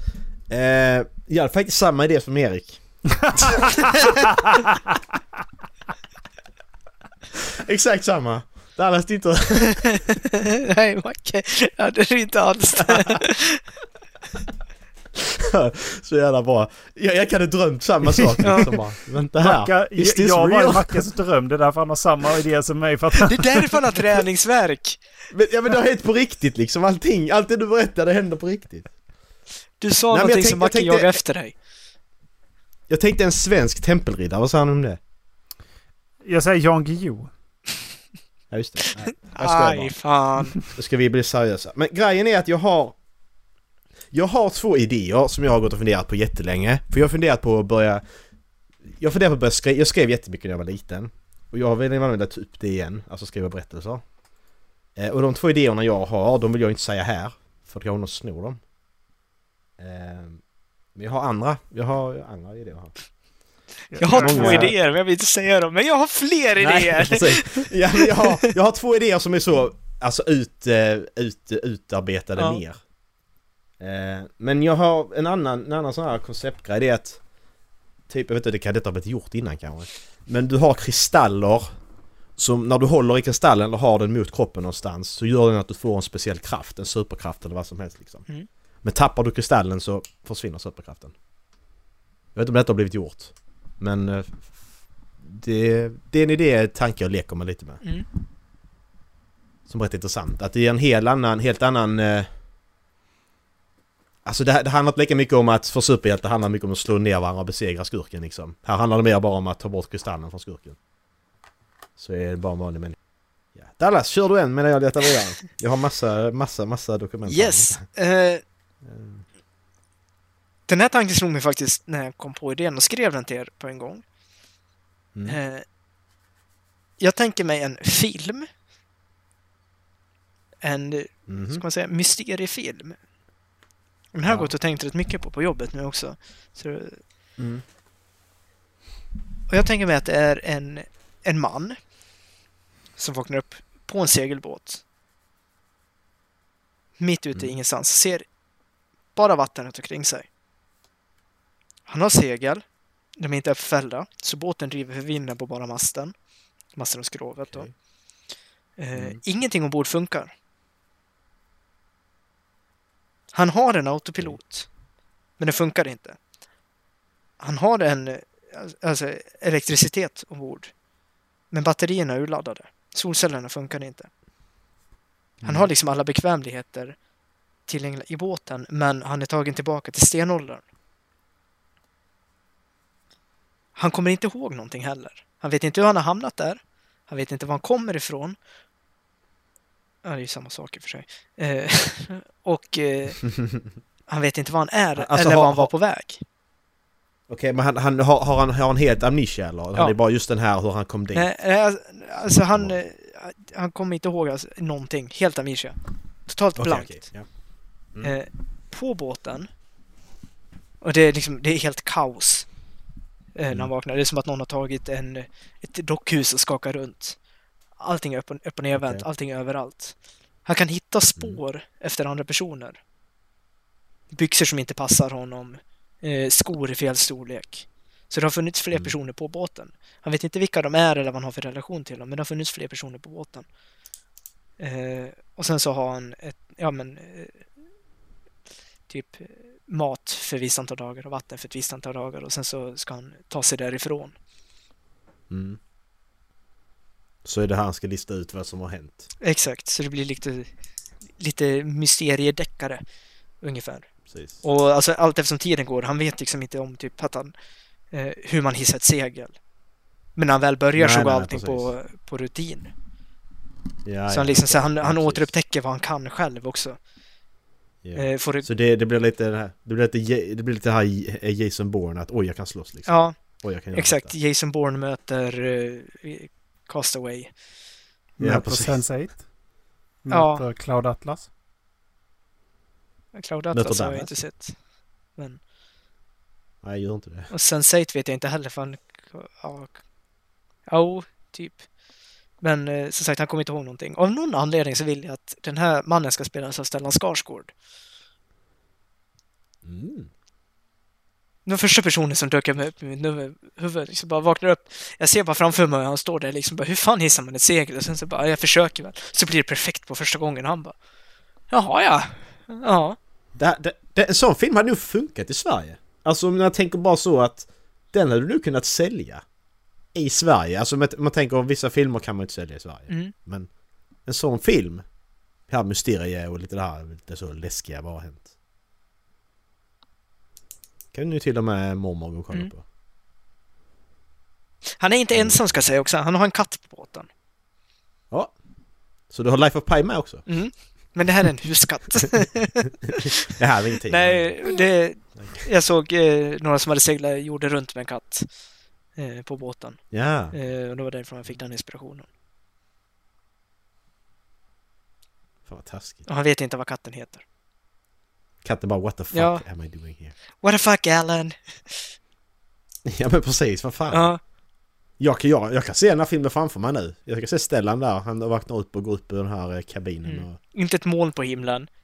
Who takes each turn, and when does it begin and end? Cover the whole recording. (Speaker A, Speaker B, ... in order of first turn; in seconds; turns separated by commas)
Speaker A: 0.5-4.5, Speaker B: 3.2-4.1, Speaker A: 7.6-9.9, Speaker C: 9.7-13.6, Speaker A: 12.8-13.2, Speaker A: 15.2-21.0, Speaker B: 18.2-18.6, Speaker C: 18.4-18.8, Speaker B: 19.4-23.8, Speaker C: 23.2-25.0, Speaker A: 25.3-28.9, Speaker C: 29.8-31.5, Speaker A: 30.1-31.2, Speaker A: 32.9-35.0, Speaker B: 36.2-37.3, Speaker A: 38.5-39.9, Speaker C: 39.0-40.6, Speaker A: 40.6-42.9, Speaker A: 44.1-48.0, Speaker A: 48.9-54.0, Speaker A: 55.0-58.6, Speaker A: 59.8-60.4, Speaker A: 60.9-62.9, Speaker B: 63.9-64.7, Speaker C: 64.0-68.3, Speaker A: 64.1-64.8, Speaker A: 66.6-72.8, Speaker C: 72.3-72.6, Speaker A: 73.8-77.2, Speaker A: 78.1-81.7, Speaker A: 82.4-88.2, Speaker A: 88.8-91.1, Speaker A: 92.3-94.5, Speaker A: 95.2-97.8, Speaker A: 99.7-102.3, Speaker A: 104.2-110.8, Speaker A: 112.0-113.0, Speaker A: 113.5-117.8, Speaker C: 117.3-118.4, Speaker A: 118.8-119.2, Speaker C: 120.7-124.0, Speaker C: 125.2-125.6, Speaker C: 127.0-128.5, Speaker C: 130.6-133.0, Speaker A: 131.3-131.6, Speaker C: 134.1-137.0, Speaker A: 134.2-134.5, Speaker A: 137.4-137.6, Speaker C: 139.5-141.8, Speaker C: 143.0-144.8, Speaker C: 147.0-148.2, Speaker C: 149.2-150.2, Speaker C: 151.9-152.6, Speaker C: 153.2-156.1, Speaker C: 156.8-157.7, Speaker C: 158.8-160.3, Speaker C: 163.3-164.7, Speaker C: 165.4-166.2, Speaker C: 167.4-170.7, Speaker C: 171.5-174.1, Speaker A: 175.4-175.7, Speaker C: 175.4-176.9, Speaker C: 177.7-180.6, Speaker C: 183.8-188.4, Speaker C: 190.0-193.3, Speaker C: 194.1-196.2, Speaker A: 194.9-195.7, Speaker A: 197.3-201.3, Speaker C: 201.1-205.8, Speaker C: 206.3-207.1, Speaker A: 206.6-207.2, Speaker C: 208.0-209.5, Speaker C: 210.8-212.5, Speaker C: 213.3-217.2, Speaker C: 217.8-222.8, Speaker A: 218.7-219.0, Speaker C: 224.1-233.4, Speaker C: 234.6-237.4, Speaker C: 238.9-244.1, Speaker A: 245.3-245.6, Speaker A: 247.2-249.1, Speaker C: 249.2-250.5, Speaker C: 251.2-252.8, Speaker C: 253.4-253.9, Speaker A: 254.1-254.4, Speaker C: 254.4-257.3, Speaker C: 257.9-259.3, Speaker C: 260.1-262.7, Speaker A: 260.8-261.7, Speaker A: 263.8-265.3, Speaker C: 264.1-266.8, Speaker A: 267.8-274.1, Speaker C: 267.9-268.5, Speaker C: 272.9-273.1, Speaker C: 273.7-277.3, Speaker B: 278.2-279.2, Speaker A: 278.2-278.8, Speaker B: 280.0-281.3, Speaker C: 280.1-280.4, Speaker C: 283.1-284.5, Speaker A: 283.5-284.1, Speaker A: 286.6-287.3, Speaker C: 287.3-289.8, Speaker C: 290.7-291.6, Speaker C: 292.4-297.5, Speaker A: 299.6-300.1, Speaker C: 301.4-310.7, Speaker C: 311.5-313.0, Speaker A: 313.4-319.2, Speaker A: 319.9-323.5, Speaker C: 322.9-323.1, Speaker A: 324.1-324.8, Speaker A: 325.5-328.3, Speaker A: 330.9-332.6, Speaker C: 334.8-337.1, Speaker A: 335.1-335.4, Speaker A: 339.1-340.2, Speaker C: 340.3-343.3, Speaker A: 343.0-344.3, Speaker C: 343.9-348.3, Speaker C: 348.9-352.1, Speaker A: 349.9-350.3, Speaker A: 355.4-356.0, Speaker C: 356.1-357.2, Speaker A: 358.4-360.1, Speaker C: 359.1-359.4, Speaker C: 360.4-361.9, Speaker A: 362.9-364.1, Speaker C: 363.9-364.2, Speaker A: 365.0-370.3, Speaker C: 370.0-371.7